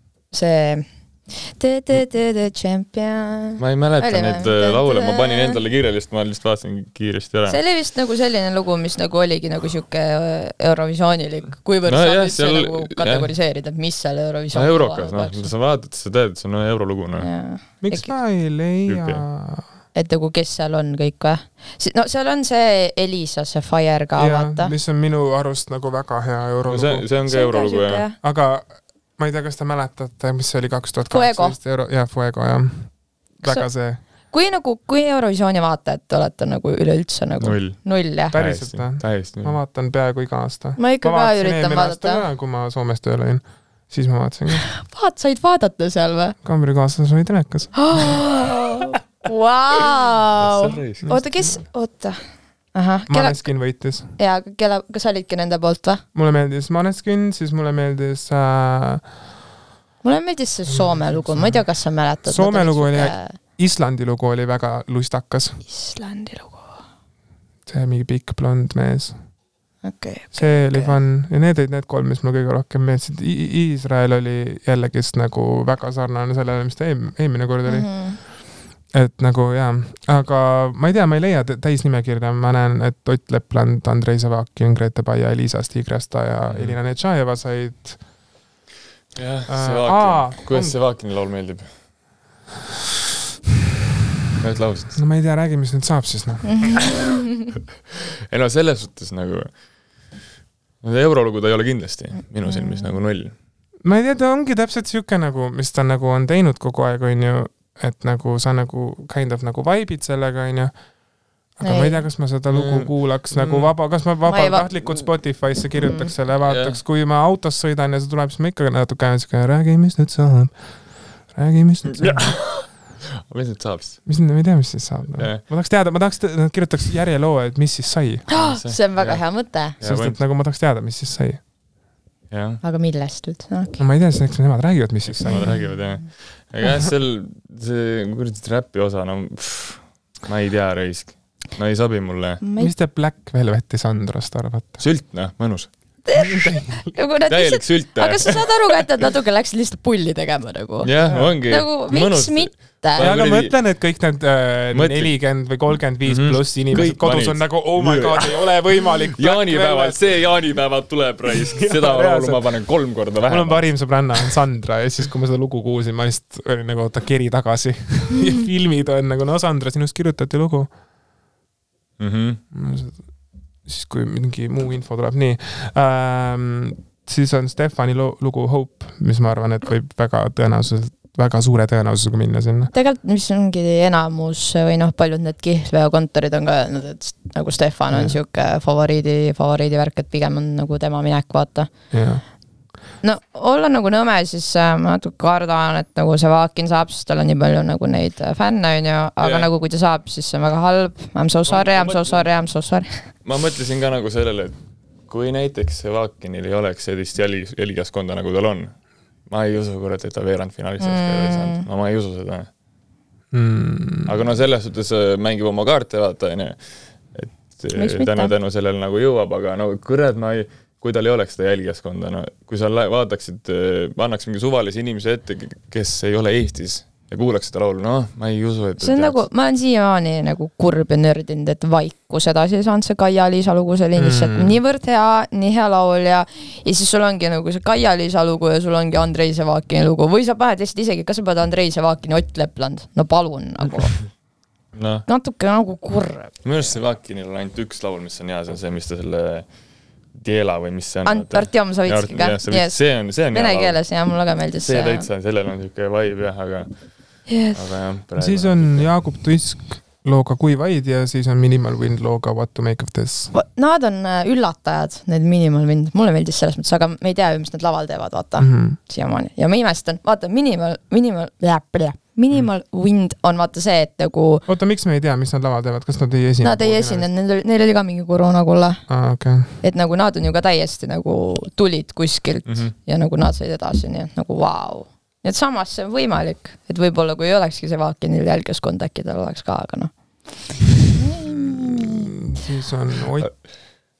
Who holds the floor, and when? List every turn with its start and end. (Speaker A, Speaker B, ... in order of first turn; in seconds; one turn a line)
Speaker A: 0.3-5.6
Speaker B: 3.6-7.6
Speaker A: 7.5-15.5
Speaker B: 11.9-13.3
Speaker B: 14.5-17.3
Speaker A: 17.2-18.1
Speaker C: 17.8-19.7
Speaker B: 18.9-19.2
Speaker A: 19.9-24.7
Speaker C: 24.2-27.1
Speaker B: 26.7-28.0
Speaker A: 27.3-28.2
Speaker C: 28.2-34.0
Speaker A: 31.1-31.6
Speaker A: 33.4-38.4
Speaker B: 37.4-37.8
Speaker B: 38.3-39.6
Speaker C: 38.3-44.7
Speaker A: 40.8-42.2
Speaker A: 44.7-46.4
Speaker C: 46.4-48.2
Speaker A: 47.8-52.2
Speaker B: 50.4-51.1
Speaker C: 51.0-51.6
Speaker A: 52.7-53.4
Speaker C: 53.1-54.1
Speaker A: 54.2-56.0
Speaker C: 56.1-59.1
Speaker A: 60.0-63.4
Speaker C: 60.7-61.6
Speaker C: 62.2-65.6
Speaker A: 65.7-66.8
Speaker C: 67.7-69.2
Speaker A: 69.8-71.0
Speaker C: 70.4-78.3
Speaker A: 77.7-78.2
Speaker C: 78.9-88.0
Speaker B: 86.5-86.8
Speaker B: 89.2-91.7
Speaker C: 89.5-90.8
Speaker B: 94.4-95.0
Speaker C: 95.0-96.8
Speaker A: 96.5-97.2
Speaker B: 98.3-100.1
Speaker B: 100.8-103.3
Speaker A: 102.5-102.9
Speaker C: 103.8-110.8
Speaker C: 111.6-122.5
Speaker A: 111.6-112.0
Speaker B: 112.5-113.7
Speaker A: 114.3-115.3
Speaker A: 115.8-116.1
Speaker B: 116.4-116.8
Speaker B: 121.9-124.0
Speaker C: 124.1-128.5
Speaker B: 125.2-125.4
Speaker A: 128.3-129.8
Speaker B: 128.3-130.2
Speaker C: 129.8-131.4
Speaker B: 132.3-132.6
Speaker A: 132.6-133.8
Speaker C: 133.8-135.8
Speaker B: 135.1-142.4
Speaker A: 142.4-142.7
Speaker C: 142.6-144.8
Speaker B: 144.8-146.0
Speaker A: 146.1-153.1
Speaker C: 146.3-146.8
Speaker B: 147.3-148.9
Speaker B: 150.8-153.6
Speaker C: 151.1-151.3
Speaker C: 153.0-160.1
Speaker B: 154.7-155.2
Speaker B: 156.0-164.3
Speaker C: 161.3-162.7
Speaker C: 163.3-170.7
Speaker B: 172.0-172.4
Speaker C: 172.5-173.1
Speaker C: 173.7-182.7
Speaker A: 182.7-191.7
Speaker C: 187.9-188.2
Speaker C: 191.9-192.2
Speaker A: 193.0-203.1
Speaker B: 199.2-199.5
Speaker B: 201.5-202.3
Speaker B: 203.2-204.6
Speaker B: 205.1-212.5
Speaker A: 210.8-211.6
Speaker C: 213.3-214.1
Speaker B: 214.1-229.2
Speaker A: 217.8-218.3
Speaker A: 228.8-244.1
Speaker C: 234.0-234.6
Speaker B: 244.7-245.1
Speaker A: 245.1-246.4
Speaker B: 246.4-249.5
Speaker B: 250.1-253.8
Speaker A: 251.1-255.1
Speaker B: 254.6-256.7
Speaker B: 257.2-258.9
Speaker A: 257.3-257.6
Speaker C: 258.2-263.3
Speaker A: 263.3-274.4
Speaker C: 268.4-268.8
Speaker C: 274.5-277.1
Speaker A: 276.4-278.9
Speaker C: 278.9-279.6
Speaker A: 279.6-292.1
Speaker B: 282.5-282.7
Speaker C: 291.2-293.6